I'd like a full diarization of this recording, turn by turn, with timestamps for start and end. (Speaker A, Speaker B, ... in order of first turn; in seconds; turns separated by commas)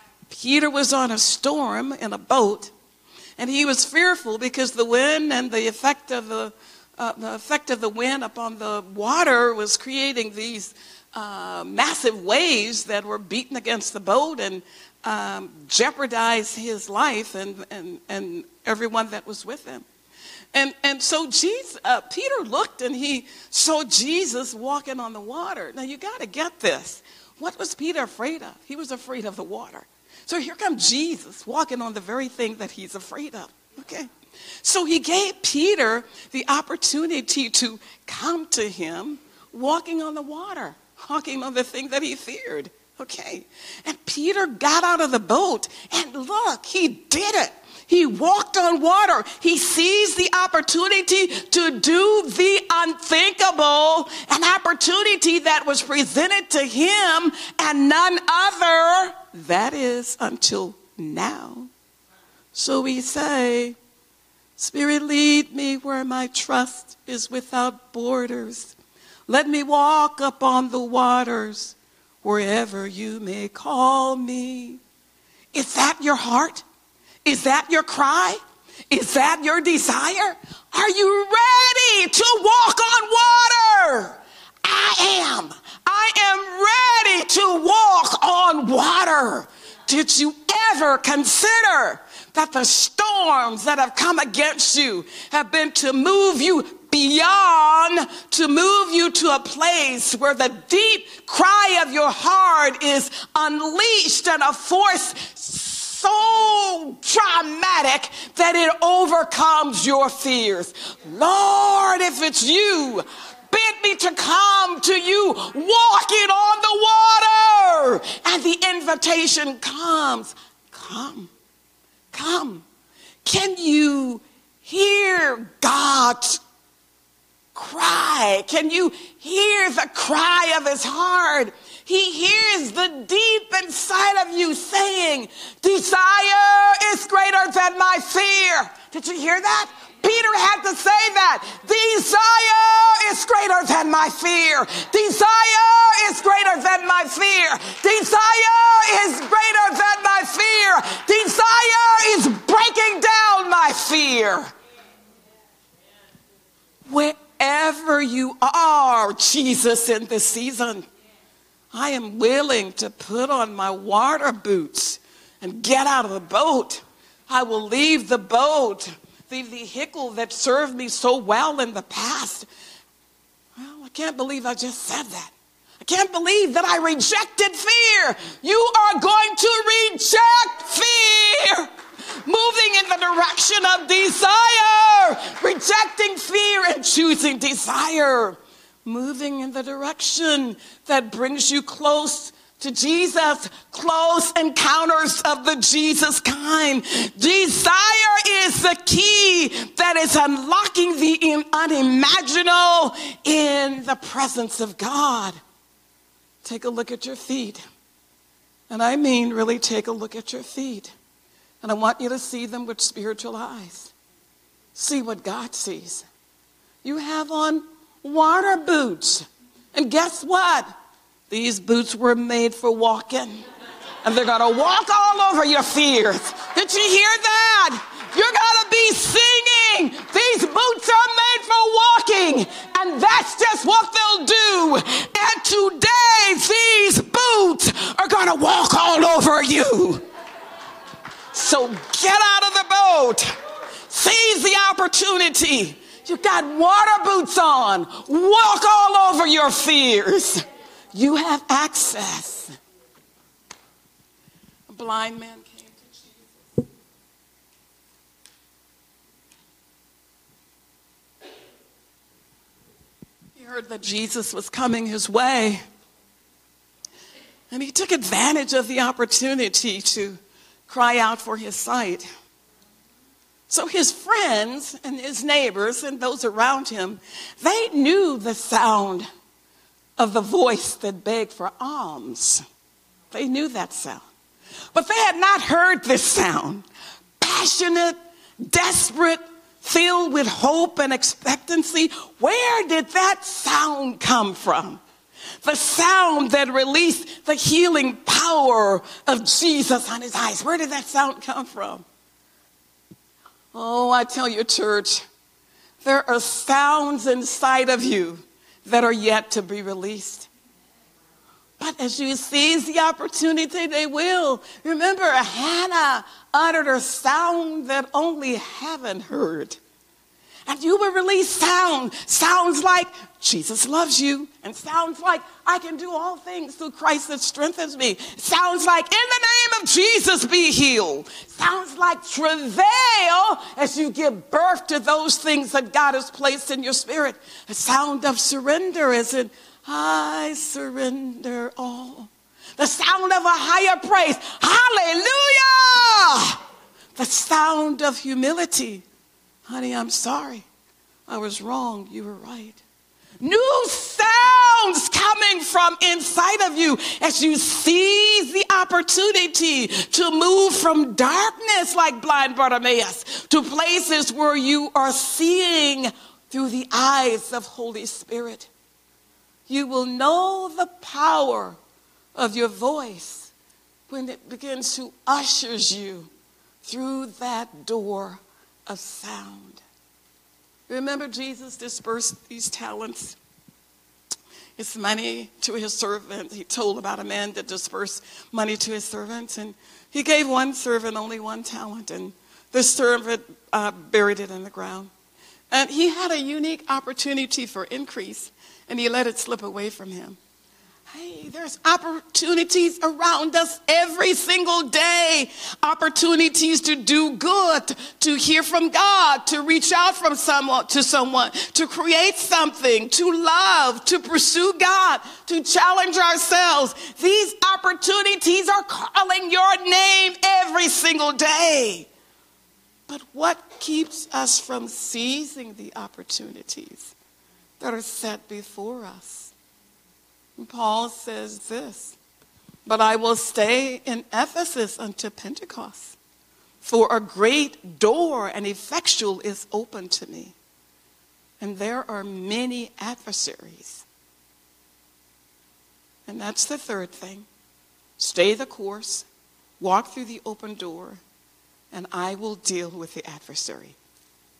Speaker A: 0.3-2.7, Speaker A: 3.4-19.8, Speaker A: 20.5-34.1, Speaker A: 34.6-61.7, Speaker A: 62.5-63.8, Speaker A: 64.6-68.7, Speaker A: 69.3-74.8, Speaker A: 75.5-76.6, Speaker A: 77.2-78.4, Speaker A: 78.9-121.3, Speaker A: 122.1-122.6, Speaker A: 123.2-126.4, Speaker A: 127.5-154.5, Speaker A: 156.8-160.9, Speaker A: 161.7-172.5, Speaker A: 173.6-181.7, Speaker A: 182.2-205.4, Speaker A: 206.4-207.6, Speaker A: 208.7-210.9, Speaker A: 211.6-213.9, Speaker A: 214.7-216.1, Speaker A: 216.8-220.7, Speaker A: 221.3-223.4, Speaker A: 224.0-240.0, Speaker A: 241.3-243.3, Speaker A: 243.9-252.5, Speaker A: 254.7-256.3, Speaker A: 263.3-265.6, Speaker A: 267.5-272.1, Speaker A: 273.5-279.1, Speaker A: 280.0-282.4, Speaker A: 283.1-284.0, Speaker A: 284.7-286.6, Speaker A: 287.2-294.8, Speaker A: 295.4-301.8, Speaker A: 303.5-305.1, Speaker A: 305.8-310.3, Speaker A: 311.6-319.6, Speaker A: 320.5-346.4, Speaker A: 347.0-348.8, Speaker A: 349.4-350.4, Speaker A: 351.1-352.6, Speaker A: 353.2-368.5, Speaker A: 369.5-371.6, Speaker A: 372.1-373.3, Speaker A: 373.9-376.1, Speaker A: 376.6-379.6, Speaker A: 380.7-383.2, Speaker A: 384.6-394.9, Speaker A: 395.5-400.2, Speaker A: 400.9-421.9, Speaker A: 422.9-426.9, Speaker A: 427.6-429.3, Speaker A: 430.4-432.0, Speaker A: 432.6-435.9, Speaker A: 436.6-440.3, Speaker A: 441.4-443.8, Speaker A: 446.1-447.3, Speaker A: 448.0-449.1, Speaker A: 449.6-451.0, Speaker A: 451.7-453.8